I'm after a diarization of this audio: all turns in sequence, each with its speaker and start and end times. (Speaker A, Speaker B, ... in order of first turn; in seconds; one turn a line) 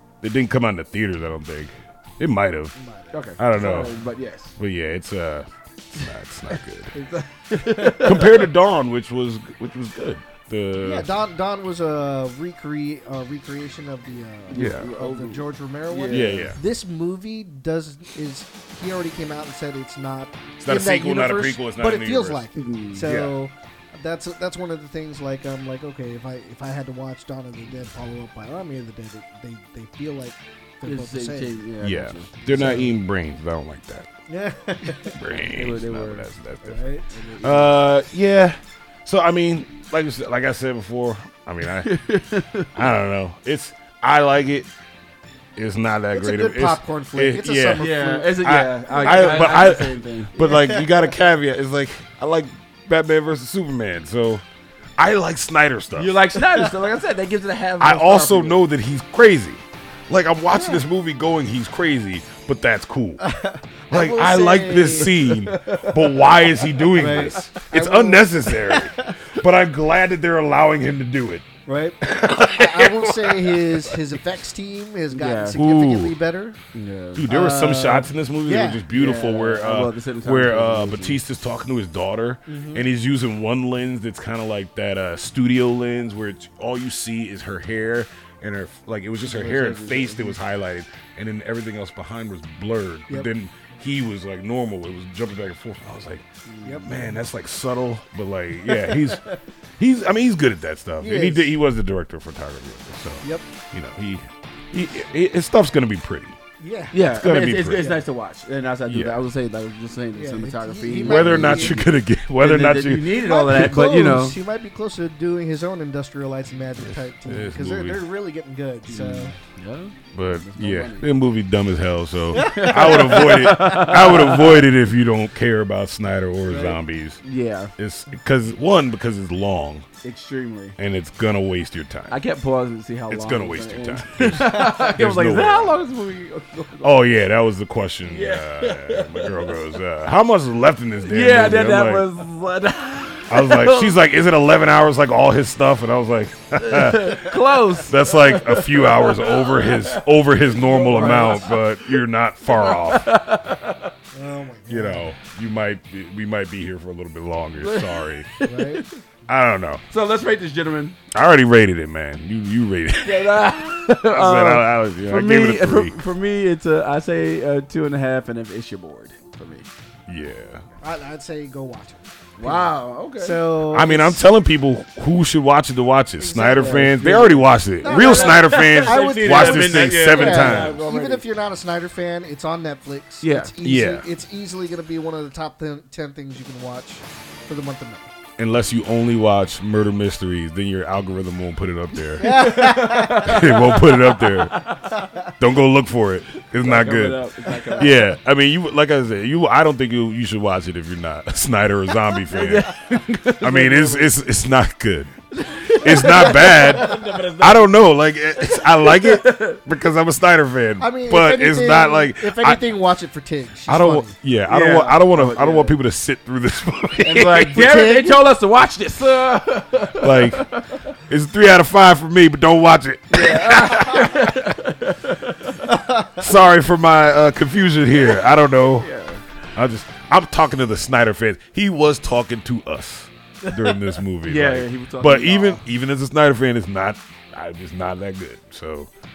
Speaker A: 0.2-2.8
Speaker B: 2.8-3.1
Speaker C: 3.1-4.5
Speaker A: 3.4-4.0
Speaker A: 4.5-6.9
Speaker C: 6.5-8.5
Speaker A: 7.9-11.1
Speaker B: 10.8-31.6
Speaker C: 14.5-16.6
Speaker A: 14.5-14.9
Speaker A: 16.1-16.6
Speaker A: 20.6-22.4
Speaker C: 22.5-23.3
Speaker A: 23.0-23.4
Speaker C: 30.8-32.8
Speaker A: 31.8-34.1
Speaker B: 32.5-32.9
Speaker B: 34.3-35.2
Speaker A: 35.1-36.8
Speaker C: 35.4-36.3
Speaker B: 36.6-37.1
Speaker C: 37.1-37.8
Speaker A: 37.4-41.9
Speaker C: 41.7-42.9
Speaker A: 42.7-44.7
Speaker A: 45.5-54.4
Speaker B: 46.1-49.5
Speaker C: 47.8-50.3
Speaker B: 50.4-51.1
Speaker A: 55.0-56.1
Speaker C: 55.9-58.6
Speaker A: 57.8-63.2
Speaker B: 63.2-65.1
Speaker A: 63.9-71.4
Speaker C: 63.9-67.5
Speaker B: 66.9-69.3
Speaker B: 71.7-76.6
Speaker A: 72.0-74.0
Speaker C: 75.1-75.6
Speaker A: 75.5-76.2
Speaker C: 76.7-77.3
Speaker A: 77.1-99.2
Speaker B: 77.3-78.8
Speaker C: 78.9-81.2
Speaker B: 82.5-82.9
Speaker C: 89.2-90.4
Speaker C: 96.5-96.9
Speaker B: 96.6-97.2
Speaker B: 98.7-99.4
Speaker A: 99.8-106.4
Speaker B: 101.0-101.5
Speaker B: 106.6-107.2
Speaker C: 106.9-114.4
Speaker A: 107.1-108.0
Speaker B: 107.7-108.0
Speaker A: 108.9-109.2
Speaker B: 110.1-111.8
Speaker A: 110.9-113.6
Speaker B: 113.2-119.3
Speaker A: 116.8-118.0
Speaker C: 118.9-121.0
Speaker A: 120.1-127.2
Speaker C: 122.3-124.7
Speaker B: 122.3-123.9
Speaker B: 126.5-126.7
Speaker C: 127.2-127.7
Speaker A: 127.8-129.8
Speaker C: 130.0-130.8
Speaker A: 130.8-132.2
Speaker C: 132.1-137.2
Speaker A: 133.1-135.8
Speaker B: 134.4-134.8
Speaker A: 136.8-142.1
Speaker C: 138.0-139.8
Speaker C: 141.0-144.0
Speaker A: 143.3-153.1
Speaker C: 146.6-153.9
Speaker B: 150.9-151.5
Speaker B: 154.1-155.1
Speaker A: 154.7-158.3
Speaker C: 157.6-158.9
Speaker B: 158.4-158.8
Speaker A: 159.3-159.8
Speaker C: 159.9-161.0
Speaker A: 161.1-163.4
Speaker C: 163.0-169.7
Speaker A: 164.0-166.0
Speaker A: 170.1-170.6
Speaker B: 170.8-174.2
Speaker C: 172.4-173.4
Speaker A: 173.7-180.8
Speaker B: 176.2-176.9
Speaker C: 176.5-181.2
Speaker B: 177.8-188.1
Speaker C: 183.2-183.5
Speaker A: 183.6-184.0
Speaker A: 188.4-192.3
Speaker C: 192.2-195.0
Speaker B: 192.2-193.4
Speaker A: 193.2-194.6
Speaker A: 195.4-197.2
Speaker C: 196.5-198.0
Speaker A: 197.8-202.7
Speaker C: 202.2-204.2
Speaker A: 203.4-212.6
Speaker C: 205.4-207.7
Speaker C: 208.4-209.6
Speaker B: 210.8-214.1
Speaker A: 213.7-217.7
Speaker C: 214.5-215.8
Speaker C: 217.0-220.8
Speaker B: 217.5-218.2
Speaker A: 220.0-220.4
Speaker A: 221.1-224.3
Speaker C: 223.1-225.6
Speaker B: 225.6-226.3
Speaker A: 226.2-228.9
Speaker C: 227.9-229.2
Speaker A: 229.5-238.9
Speaker B: 233.4-234.0
Speaker C: 234.2-235.6